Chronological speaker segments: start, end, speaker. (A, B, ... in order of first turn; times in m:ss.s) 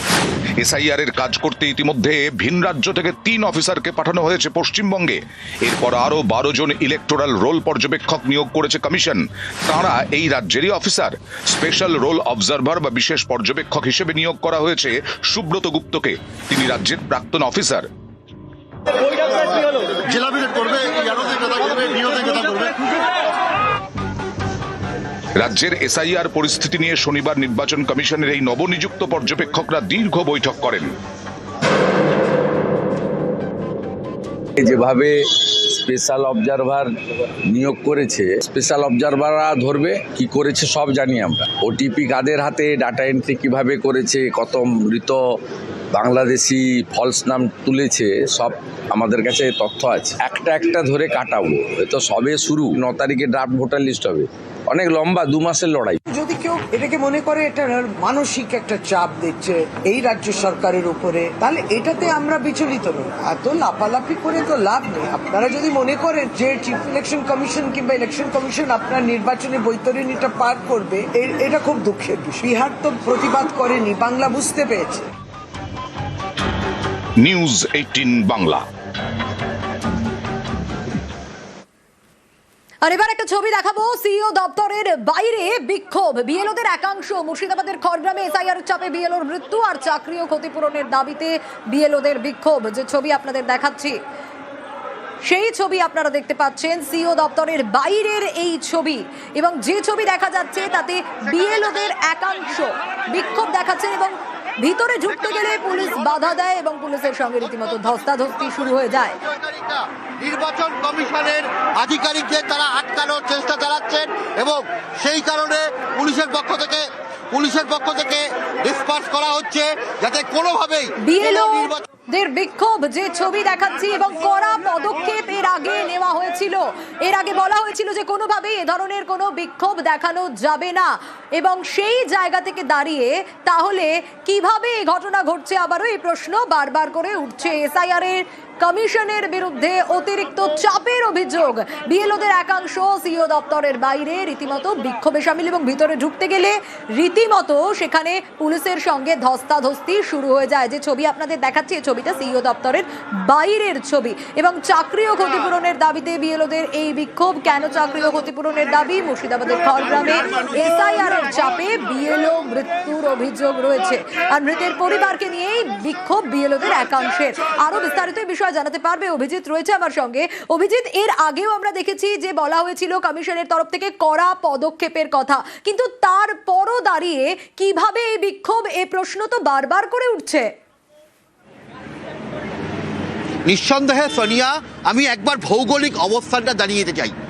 0:00.6-0:17.9 A
0:19.2-0:22.8 B
0:25.4-0:30.9 A
0:34.6-0:36.9 C
0:37.5-0:45.2 C
0:45.9-0:56.0 C
0:56.1-1:15.1 D
1:17.2-1:18.6 A
1:22.8-1:34.0 E
1:35.3-1:49.2 E
1:49.2-2:01.8 B
2:01.0-3:00.5 E
3:03.5-3:07.1 B